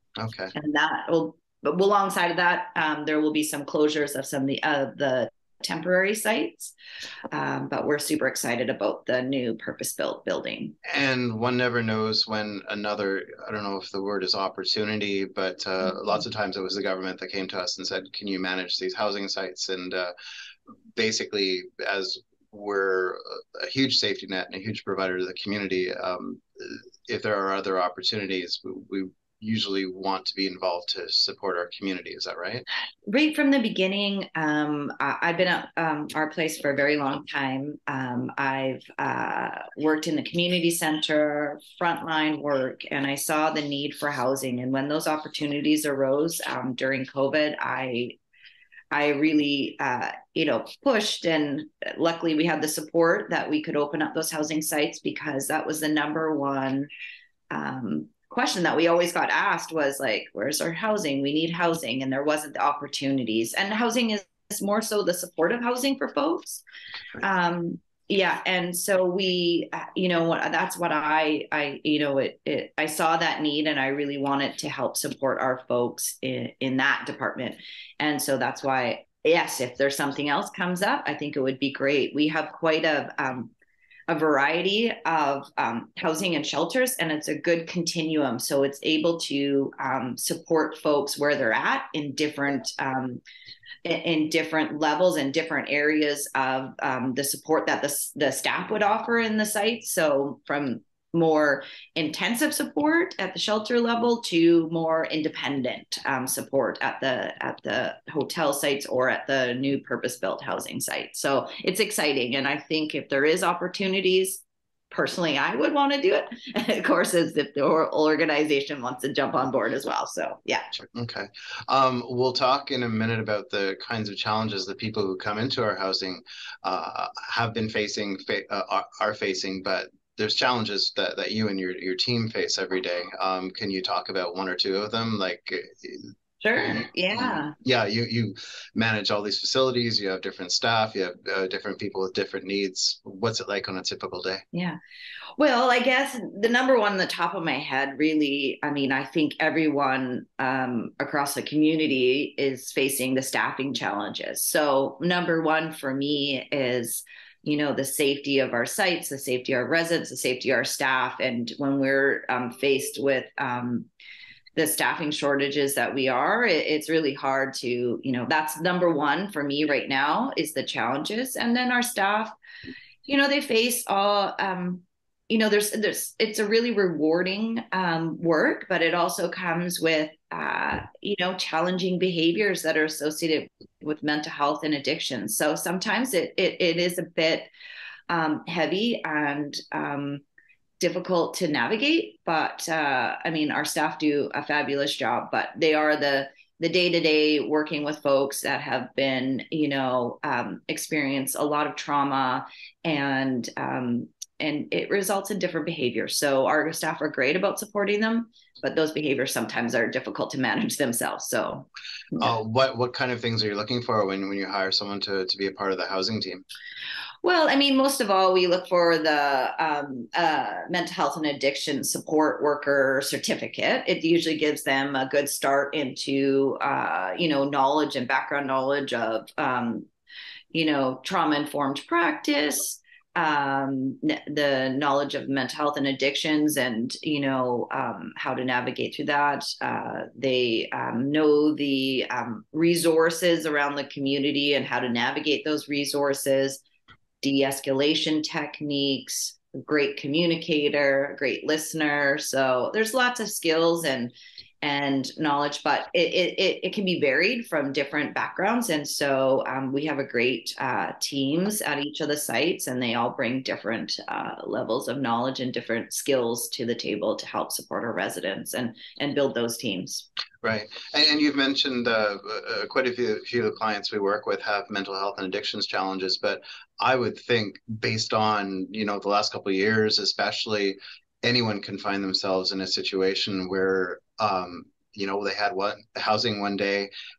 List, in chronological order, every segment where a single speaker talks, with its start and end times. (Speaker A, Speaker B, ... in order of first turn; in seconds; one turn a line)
Speaker A: 0.2-0.5
Speaker B: 0.5-6.7
Speaker B: 7.3-10.8
Speaker A: 10.8-20.1
Speaker A: 20.9-32.6
Speaker B: 33.1-48.2
Speaker B: 48.9-56.9
Speaker B: 57.5-66.6
Speaker B: 67.2-83.5
Speaker B: 84.1-93.2
Speaker B: 93.8-120.7
Speaker A: 120.9-136.1
Speaker B: 136.4-137.5
Speaker A: 136.6-144.4
Speaker B: 145.4-163.9
Speaker B: 164.6-172.3
Speaker B: 173.1-187.5
Speaker B: 188.1-190.2
Speaker B: 190.8-211.7
Speaker A: 212.2-216.4
Speaker B: 217.2-229.9
Speaker B: 230.5-246.6
Speaker B: 247.2-270.1
Speaker A: 270.4-286.9